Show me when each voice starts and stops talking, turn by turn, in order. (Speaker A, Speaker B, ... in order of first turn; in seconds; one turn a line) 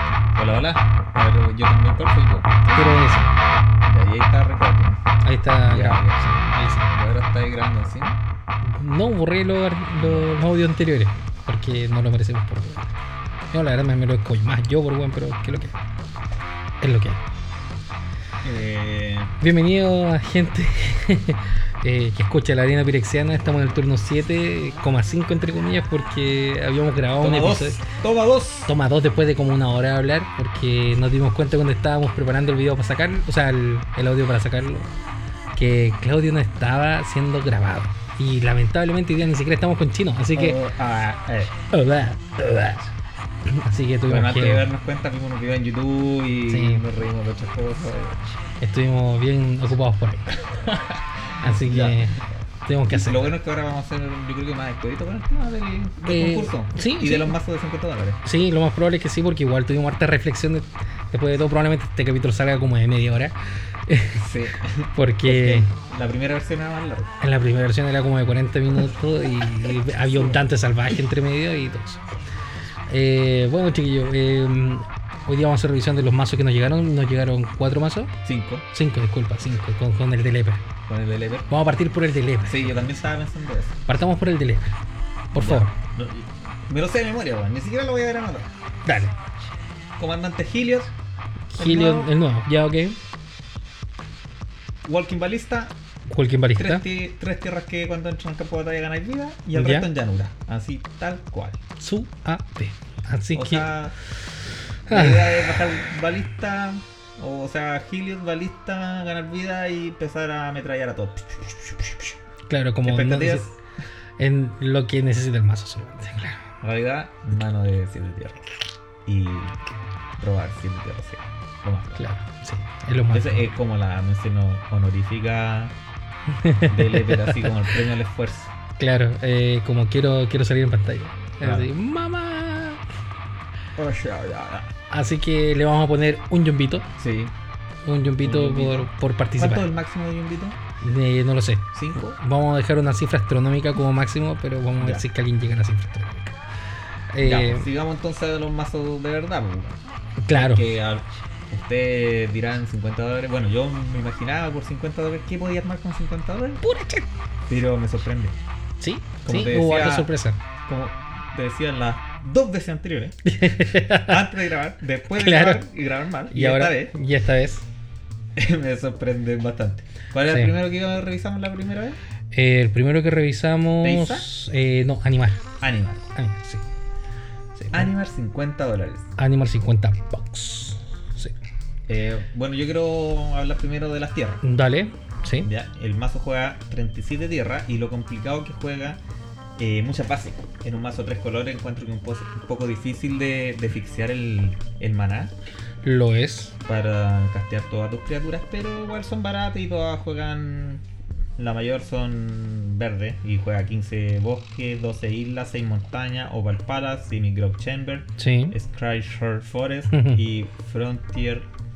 Speaker A: 0.3-3.0
Speaker B: 2.7-3.3
Speaker A: 3.8-5.0
Speaker B: 5.2-6.9
Speaker A: 5.7-6.2
Speaker A: 6.9-8.2
Speaker B: 8.6-12.9
Speaker A: 10.0-10.4
Speaker B: 13.5-15.8
Speaker B: 16.8-17.2
Speaker A: 18.4-19.3
Speaker B: 19.4-27.8
Speaker A: 27.2-28.7
Speaker B: 28.7-34.9
Speaker B: 35.5-40.6
Speaker A: 40.3-41.5
Speaker B: 41.7-42.9
Speaker B: 43.5-44.7
Speaker A: 44.1-48.2
Speaker B: 46.5-46.9
Speaker B: 48.6-50.3
Speaker A: 50.4-52.3
Speaker B: 51.4-53.3
Speaker A: 52.9-58.2
Speaker B: 56.0-57.4
Speaker B: 58.2-63.4
Speaker B: 63.9-64.2
Speaker A: 64.1-67.1
Speaker B: 64.9-65.7
Speaker B: 67.2-72.0
Speaker A: 70.2-70.4
Speaker B: 72.9-78.1
Speaker A: 78.2-78.7
Speaker B: 78.7-80.7
Speaker A: 80.9-81.5
Speaker B: 81.5-83.0
Speaker A: 82.5-83.8
Speaker B: 83.9-84.8
Speaker B: 85.3-85.7
Speaker A: 85.3-88.5
Speaker B: 88.8-89.1
Speaker A: 90.0-90.9
Speaker B: 91.5-93.0
Speaker A: 91.6-92.1
Speaker A: 94.8-95.8
Speaker B: 96.1-96.8
Speaker A: 96.6-101.6
Speaker B: 99.5-99.9
Speaker B: 101.8-103.7
Speaker A: 103.3-104.0
Speaker B: 104.9-105.8
Speaker A: 104.9-112.2
Speaker B: 112.5-113.5
Speaker A: 112.8-113.6
Speaker B: 114.2-116.4
Speaker A: 116.6-118.4
Speaker A: 119.0-119.6
Speaker A: 120.2-122.0
Speaker B: 122.0-123.5
Speaker A: 123.1-125.8
Speaker B: 126.3-127.8
Speaker A: 126.7-128.5
Speaker B: 128.8-132.8
Speaker A: 131.4-131.7
Speaker A: 133.8-134.7
Speaker B: 134.9-136.9
Speaker A: 137.0-137.3
Speaker B: 137.8-139.7
Speaker A: 138.2-140.6
Speaker B: 140.8-146.3
Speaker A: 141.7-142.2
Speaker A: 144.8-145.1
Speaker B: 147.1-147.7
Speaker A: 147.2-149.8
Speaker B: 150.2-150.7
Speaker A: 150.3-156.6
Speaker B: 156.6-157.1
Speaker A: 157.5-158.4
Speaker B: 158.8-160.4
Speaker A: 159.3-160.1
Speaker A: 160.7-166.9
Speaker B: 163.2-164.3
Speaker B: 165.1-165.7
Speaker B: 166.3-167.7
Speaker A: 168.4-172.0
Speaker B: 172.3-175.4
Speaker A: 173.8-174.3
Speaker A: 175.6-176.1
Speaker B: 176.1-176.6
Speaker B: 177.6-177.9
Speaker A: 177.7-179.1
Speaker B: 179.2-181.3
Speaker A: 181.9-184.4
Speaker B: 184.4-185.5
Speaker A: 185.4-189.0
Speaker A: 189.6-195.3
Speaker B: 195.8-196.6
Speaker A: 196.7-200.8
Speaker A: 201.4-211.5
Speaker B: 208.2-208.6
Speaker B: 209.9-210.2